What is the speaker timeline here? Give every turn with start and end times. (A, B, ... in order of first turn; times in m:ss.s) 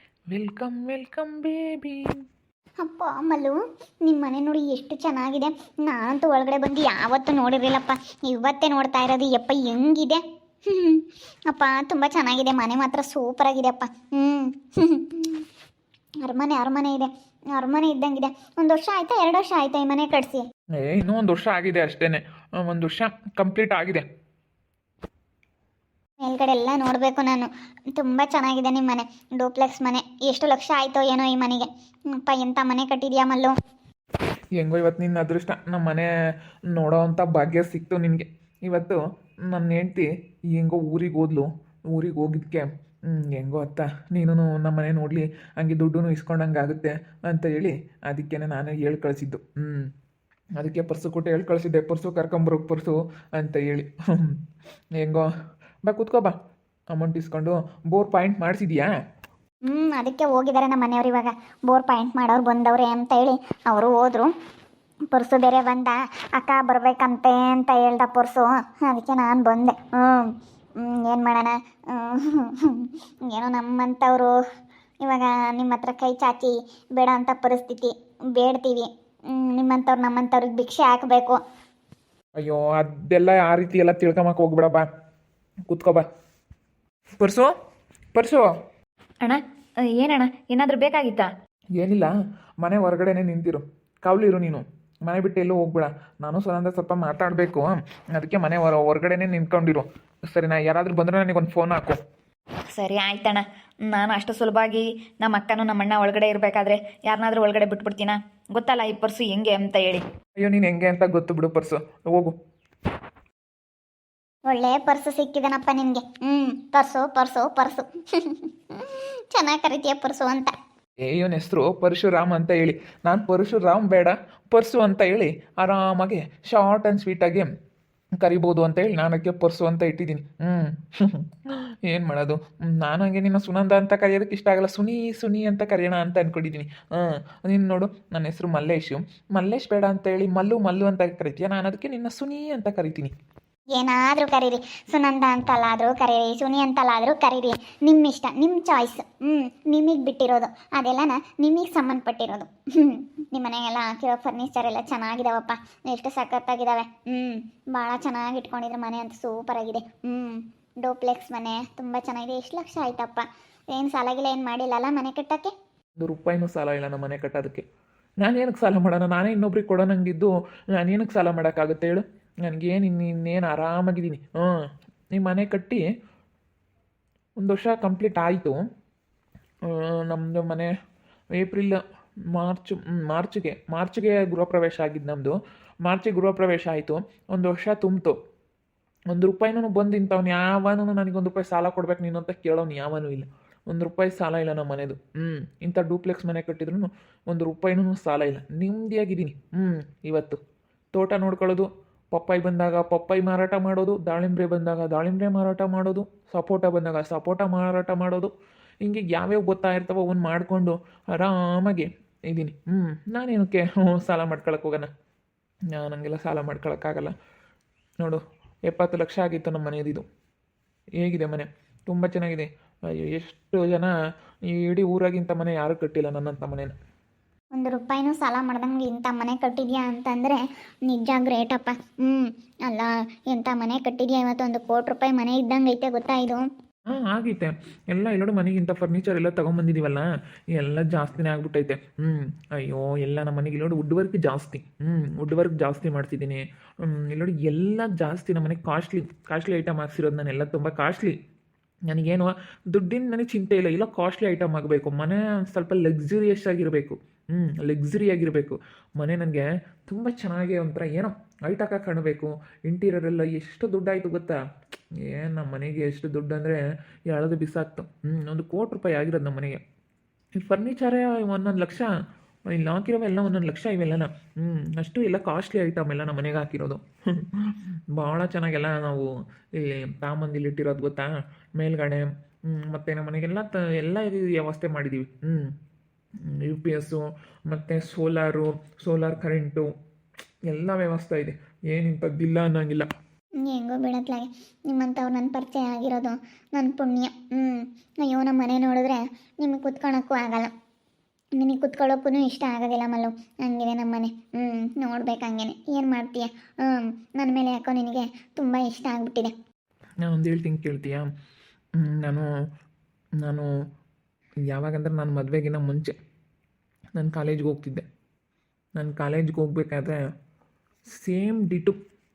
0:00.3-0:02.2 A
0:02.8-0:15.5 B
0:16.2-0:20.5 B
0:20.7-0:24.0 A
0:26.2-0:33.5 B
0:34.6-0:36.1 A
0:36.7-0:49.9 A
0:50.6-0:54.4 A
0:55.0-0:55.3 A
0:55.8-0:56.4 A
0:56.9-0:58.9 A
0:59.7-1:04.3 B
1:05.1-1:14.4 B
1:15.0-1:21.4 B
1:22.4-1:24.9 A
1:25.7-1:26.1 A
1:27.2-1:27.5 A
1:28.1-1:28.5 A
1:30.0-1:31.3 C
1:31.8-1:42.0 A
1:42.8-1:50.0 C
1:50.4-1:52.4 A
1:54.5-2:00.5 B
2:01.0-2:07.5 A
2:08.2-2:11.3 A
2:11.9-2:23.1 A
2:23.8-2:45.5 B
2:46.0-2:47.6 A
2:48.2-2:54.5 A
2:55.1-2:55.9 A
2:57.4-2:58.6 A
2:59.7-3:00.7 A
3:01.3-3:01.8 A
3:02.3-3:08.2 A
3:09.1-3:20.4 A
3:20.9-3:28.3 A
3:28.8-3:34.9 A
3:35.8-3:37.2 A
3:38.0-3:40.0 A
3:41.0-3:43.9 A
3:44.5-3:46.8 A
3:47.6-3:56.4 B
3:56.9-4:11.2 A
4:11.9-4:24.4 A
4:25.1-4:29.6 A
4:30.4-4:31.9 A
4:32.5-4:45.5 A
4:46.2-4:49.7 A
4:50.5-4:52.9 A
4:53.4-5:00.5 B
5:01.4-5:09.3 B
5:10.0-5:11.1 A
5:11.8-5:12.3 A
5:13.2-5:13.5 A
5:14.5-5:16.0 A
5:17.0-5:17.9 A
5:18.8-5:20.1 A
5:20.9-5:21.8 A